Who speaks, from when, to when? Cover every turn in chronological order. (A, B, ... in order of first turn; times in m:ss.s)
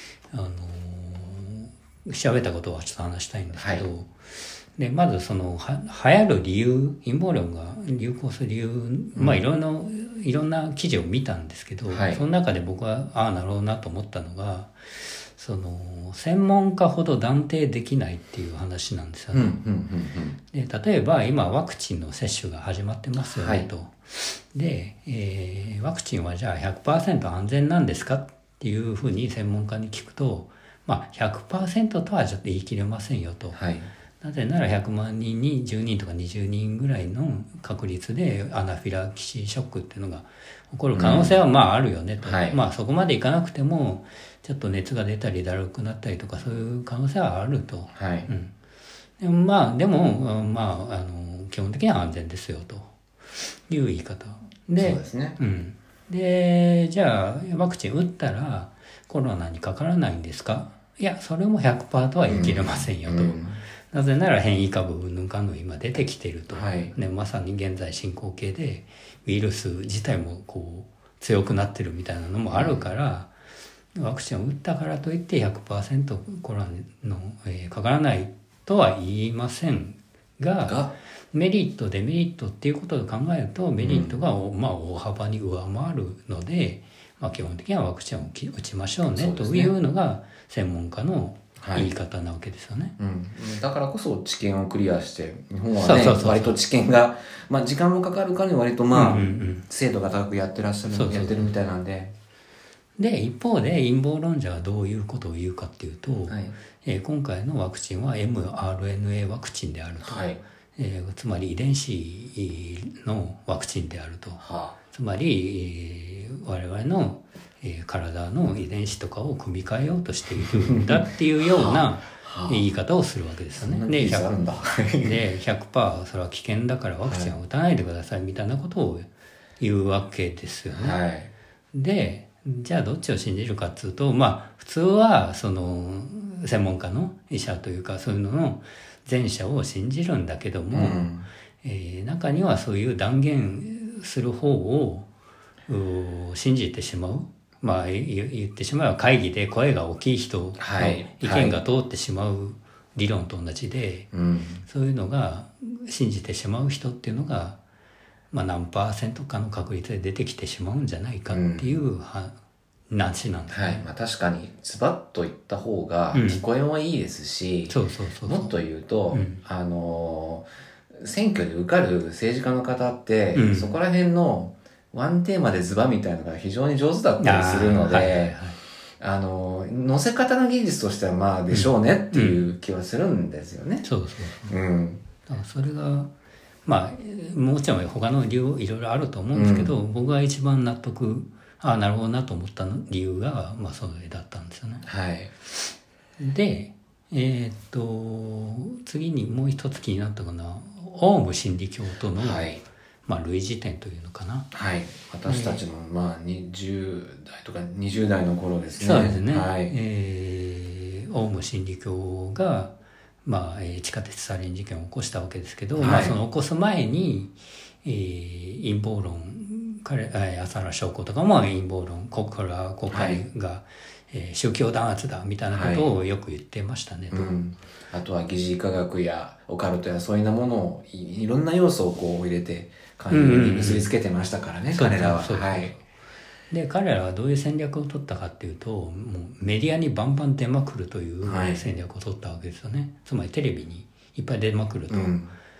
0:00.3-0:04.1 A
0:03.6-0:03.9 B
0:04.8-0:19.6 A
0:09.2-0:09.4 B
0:11.9-0:12.2 B
0:19.3-0:20.4 B
0:20.5-0:33.6 A
0:23.2-0:23.7 B
0:33.5-0:33.9 B
0:34.2-0:48.5 A
0:40.9-0:41.4 B
0:42.2-0:42.6 B
0:47.9-0:48.3 B
0:49.2-1:13.3 A
0:54.8-0:55.4 B
1:02.3-1:03.6 B
1:06.5-1:06.9 B
1:12.5-1:12.9 B
1:14.0-1:33.0 A
1:20.6-1:21.0 B
1:23.8-1:24.2 B
1:29.2-1:29.7 B
1:31.6-1:31.9 B
1:33.0-1:42.1 B
1:35.8-1:36.6 A
1:38.9-1:39.6 A
1:40.9-1:41.5 A
1:43.0-1:50.2 A
1:46.3-1:46.6 B
1:50.0-1:50.4 B
1:50.8-2:04.3 A
1:54.4-1:54.8 B
2:00.4-2:02.6 B
2:03.6-2:05.2 B
2:05.0-2:09.1 A
2:07.0-2:07.3 B
2:09.6-2:11.0 A
2:10.7-2:11.3 B
2:11.7-2:21.1 A
2:20.7-2:21.3 B
2:21.6-2:25.1 A
2:25.7-2:34.1 A
2:30.6-2:31.6 B
2:34.1-2:34.6 B
2:34.6-2:37.6 A
2:38.3-2:42.4 A
2:41.3-2:41.7 B
2:42.9-2:43.8 A
2:43.5-2:58.4 B
2:46.1-2:46.4 A
2:47.7-2:48.5 A
2:49.1-2:49.4 A
2:53.4-2:53.8 A
2:57.2-2:58.6 A
2:59.0-3:03.9 B
3:01.5-3:02.4 A
3:03.8-3:04.6 A
3:04.5-3:05.0 B
3:05.3-3:06.1 A
3:06.7-3:14.8 A
3:09.3-3:09.7 B
3:14.8-3:15.3 B
3:16.2-3:22.5 A
3:22.2-3:22.6 B
3:23.1-3:24.5 A
3:24.5-3:29.7 B
3:25.3-3:25.6 A
3:28.8-3:32.7 A
3:33.2-3:47.3 A
3:35.8-3:36.2 B
3:42.9-3:43.2 B
3:45.5-3:45.9 B
3:47.1-3:55.8 B
3:53.1-3:53.9 A
3:54.7-3:55.8 A
3:56.5-4:05.2 A
4:01.2-4:01.7 B
4:04.9-4:05.3 B